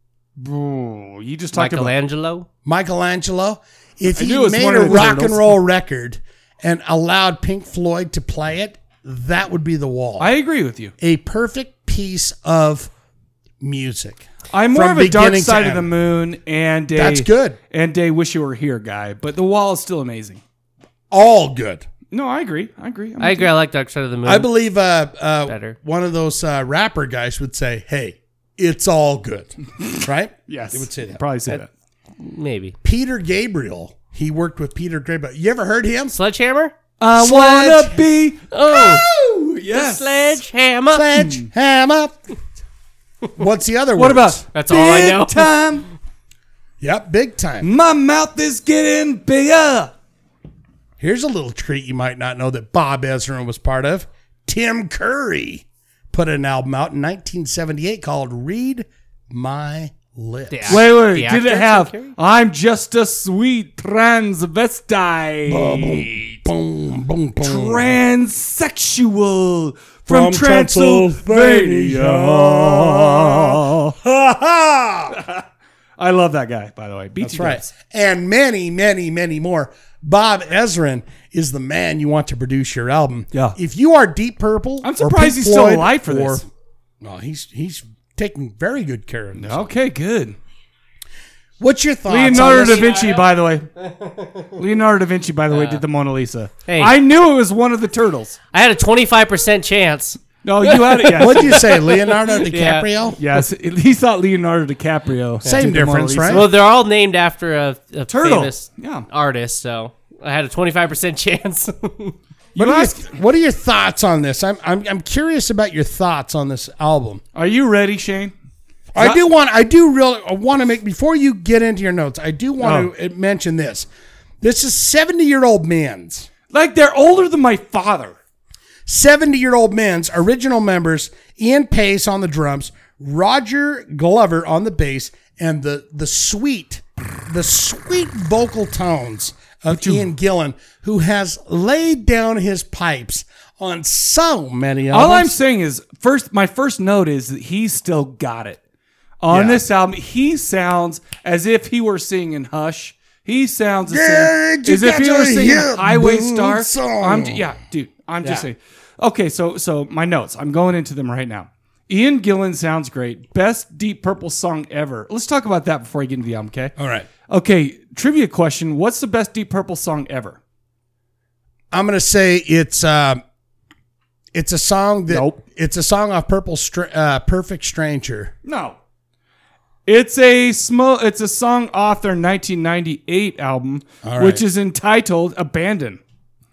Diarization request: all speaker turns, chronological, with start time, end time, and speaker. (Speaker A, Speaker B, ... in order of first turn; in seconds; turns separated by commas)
Speaker A: 0.4-1.9, Speaker B: 1.5-2.5, Speaker C: 2.6-10.3, Speaker A: 4.1-5.6, Speaker A: 10.2-10.9, Speaker C: 11.0-12.9, Speaker C: 13.6-15.9, Speaker A: 14.5-20.4, Speaker C: 16.9-17.6, Speaker C: 21.1-21.9, Speaker A: 22.1-23.5, Speaker B: 23.2-24.5, Speaker C: 24.2-31.2, Speaker B: 25.5-25.8, Speaker A: 30.5-31.7, Speaker B: 32.2-32.8, Speaker C: 32.8-36.2, Speaker B: 36.1-36.7, Speaker A: 37.0-40.1, Speaker C: 37.1-38.0, Speaker B: 38.5-39.0, Speaker B: 39.7-41.0, Speaker C: 40.9-42.2, Speaker A: 41.1-41.5, Speaker C: 43.4-44.4, Speaker A: 44.0-45.9, Speaker B: 44.5-45.5, Speaker C: 46.8-47.7, Speaker A: 47.6-49.9, Speaker C: 51.0-60.9, Speaker B: 60.5-62.1, Speaker A: 60.7-66.4, Speaker C: 65.5-67.9, Speaker A: 67.4-74.0, Speaker C: 70.1-75.2, Speaker A: 75.1-75.4, Speaker A: 76.0-77.7, Speaker C: 77.2-86.5, Speaker A: 84.8-86.4, Speaker C: 87.0-89.7, Speaker A: 89.3-90.4, Speaker C: 91.6-93.1, Speaker A: 92.1-93.7, Speaker B: 92.4-93.2, Speaker B: 93.8-94.5, Speaker A: 94.5-98.4, Speaker B: 95.5-95.8, Speaker B: 96.7-97.0, Speaker B: 98.5-102.9, Speaker A: 100.4-101.7, Speaker C: 101.1-103.2, Speaker A: 103.2-106.5, Speaker C: 105.4-106.5, Speaker B: 106.3-112.2, Speaker A: 108.1-109.0, Speaker A: 112.5-113.0, Speaker C: 112.5-117.2, Speaker A: 117.3-118.3, Speaker C: 118.9-123.9, Speaker A: 122.6-122.9, Speaker C: 124.4-126.3, Speaker A: 126.5-128.2, Speaker C: 128.9-145.3, Speaker A: 139.7-140.1, Speaker A: 144.9-148.6, Speaker A: 149.2-166.7, Speaker C: 149.3-149.6, Speaker C: 153.9-157.4, Speaker C: 166.8-167.1, Speaker A: 167.3-170.4, Speaker C: 171.7-173.2, Speaker C: 174.3-178.3, Speaker A: 175.1-175.4, Speaker A: 178.4-178.8, Speaker A: 179.8-186.0, Speaker C: 184.0-184.4